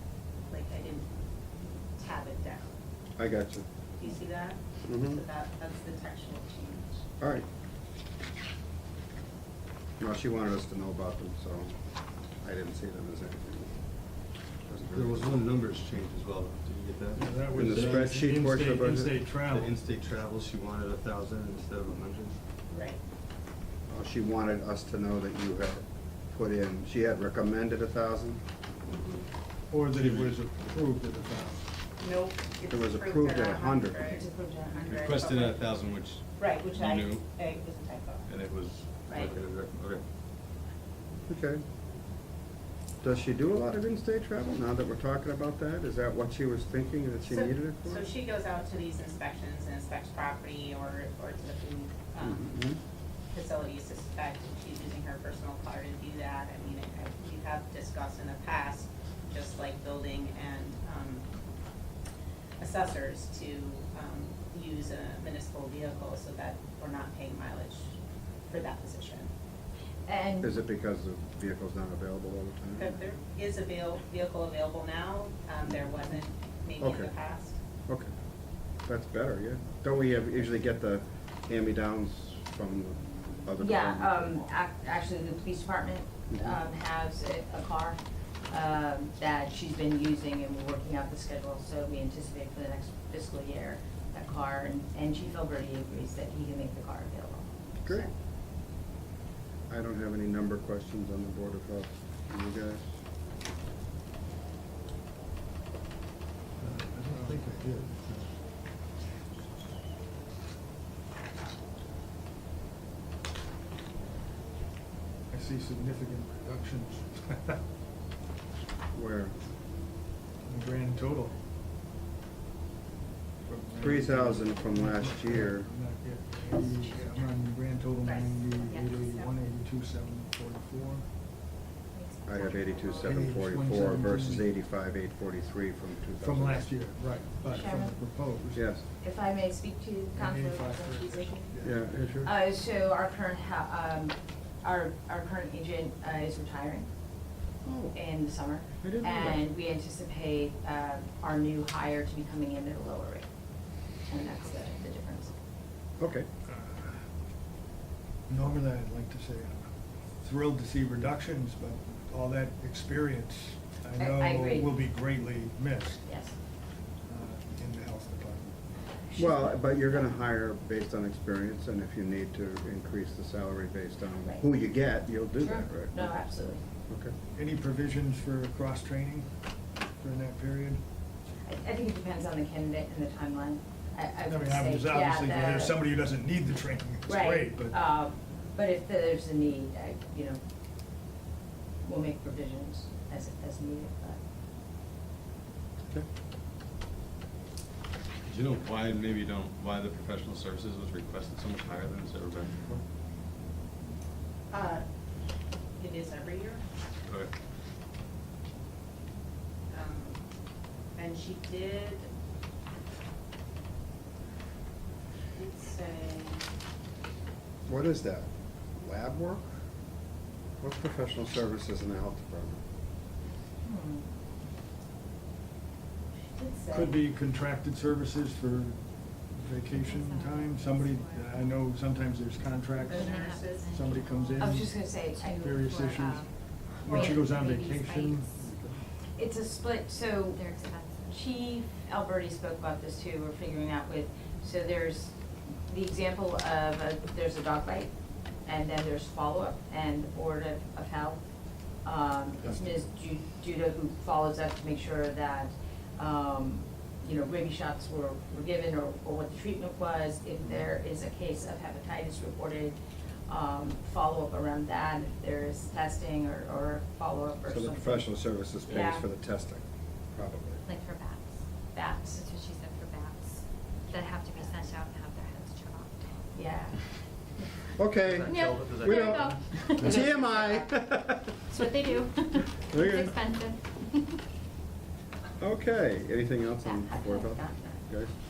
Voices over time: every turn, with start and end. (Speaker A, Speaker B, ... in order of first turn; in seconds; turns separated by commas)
Speaker A: 0.5-1.1, Speaker A: 2.0-2.7, Speaker B: 3.2-3.6, Speaker A: 4.0-7.0, Speaker B: 4.8-5.2, Speaker B: 7.2-7.5, Speaker B: 10.0-11.7, Speaker B: 12.4-13.8, Speaker B: 14.7-15.3, Speaker C: 14.9-18.1, Speaker D: 17.2-19.7, Speaker B: 17.5-19.2, Speaker C: 19.5-22.4, Speaker A: 22.7-23.0, Speaker B: 23.9-28.4, Speaker D: 29.7-31.7, Speaker C: 29.9-30.4, Speaker A: 32.0-35.7, Speaker B: 32.7-34.0, Speaker E: 34.0-34.9, Speaker C: 34.9-36.2, Speaker A: 36.3-38.3, Speaker C: 36.8-37.2, Speaker C: 38.3-40.0, Speaker A: 39.1-39.4, Speaker B: 41.3-41.6, Speaker B: 43.0-48.1, Speaker A: 47.3-52.7, Speaker B: 52.2-52.8, Speaker A: 53.3-61.3, Speaker A: 62.6-68.0, Speaker A: 68.5-69.3, Speaker E: 70.1-70.5, Speaker B: 70.4-72.9, Speaker A: 72.8-77.6, Speaker B: 76.8-77.1, Speaker B: 78.9-84.5, Speaker E: 83.6-88.0, Speaker B: 86.3-86.6, Speaker E: 88.5-98.1, Speaker B: 99.7-102.9, Speaker D: 106.6-108.3, Speaker D: 115.3-117.6, Speaker B: 118.9-119.3, Speaker D: 120.4-121.4, Speaker D: 123.5-131.1, Speaker B: 123.8-125.7, Speaker E: 126.5-127.3, Speaker A: 128.0-129.3, Speaker F: 132.0-132.9, Speaker B: 132.3-136.7, Speaker D: 132.9-134.5, Speaker D: 136.2-138.8, Speaker E: 137.5-138.0, Speaker B: 138.5-138.8, Speaker E: 139.0-141.5, Speaker D: 140.1-142.2, Speaker B: 141.6-142.3, Speaker E: 142.2-146.9, Speaker B: 147.6-148.0, Speaker E: 147.9-153.3, Speaker B: 148.8-149.4, Speaker E: 154.1-155.3, Speaker B: 156.0-156.3, Speaker D: 156.5-157.1, Speaker D: 158.3-166.1, Speaker E: 164.0-164.8, Speaker E: 166.0-166.4, Speaker D: 167.1-168.6, Speaker E: 169.0-169.6, Speaker B: 169.2-176.2, Speaker E: 175.4-176.6, Speaker B: 176.9-177.1, Speaker D: 177.3-179.3, Speaker D: 180.0-180.8, Speaker E: 181.4-185.8, Speaker D: 184.2-187.8, Speaker E: 187.1-190.4, Speaker E: 191.8-194.2, Speaker C: 198.3-202.8, Speaker A: 204.5-204.8, Speaker A: 205.8-206.6, Speaker C: 207.1-207.3, Speaker A: 209.7-210.2, Speaker A: 211.0-212.1, Speaker A: 215.3-216.4, Speaker B: 217.7-219.5, Speaker B: 220.6-222.6, Speaker E: 223.6-224.1, Speaker A: 226.3-227.0, Speaker D: 226.7-234.8, Speaker F: 229.7-231.6, Speaker F: 232.8-238.5, Speaker A: 232.9-233.7, Speaker E: 234.4-235.6, Speaker D: 235.4-238.3, Speaker E: 236.8-237.2, Speaker E: 239.2-240.4, Speaker F: 240.3-241.2, Speaker E: 241.1-245.2, Speaker E: 245.7-247.9, Speaker E: 248.4-251.2, Speaker E: 251.8-268.1, Speaker D: 252.4-252.8, Speaker B: 267.5-270.6, Speaker E: 268.7-269.0, Speaker F: 270.6-271.4, Speaker E: 271.7-272.2, Speaker F: 272.1-276.3, Speaker E: 276.4-276.9, Speaker B: 277.8-281.6, Speaker C: 278.1-279.4, Speaker F: 278.3-280.7, Speaker F: 281.5-284.2, Speaker B: 282.7-283.2, Speaker B: 285.4-288.1, Speaker E: 286.6-287.8